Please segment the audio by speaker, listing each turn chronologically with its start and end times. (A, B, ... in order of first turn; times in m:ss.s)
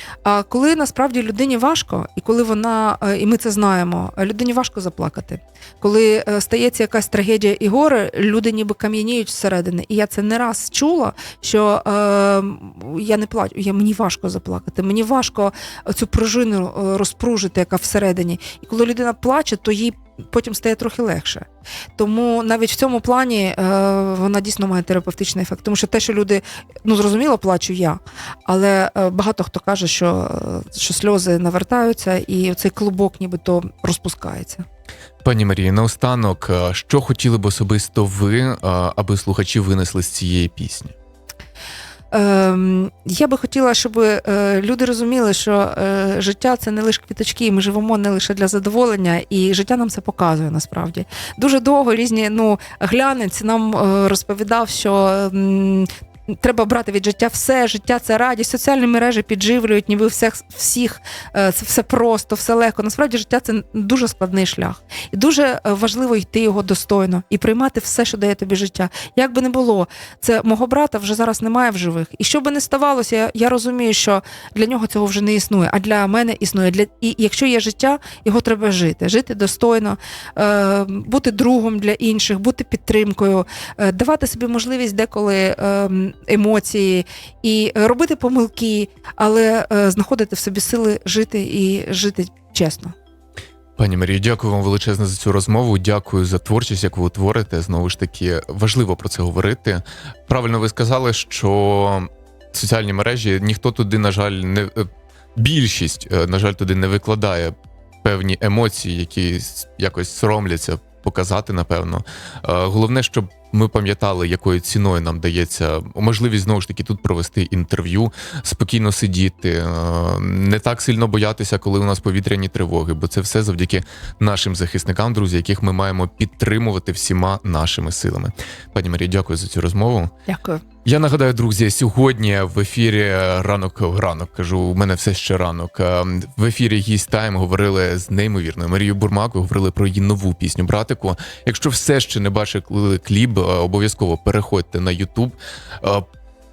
0:00.2-0:34.6 A
0:35.2-0:40.9 B
0:42.1-1:33.0 A
1:33.8-2:10.1 B
2:10.3-2:10.6 A
2:10.8-2:26.0 B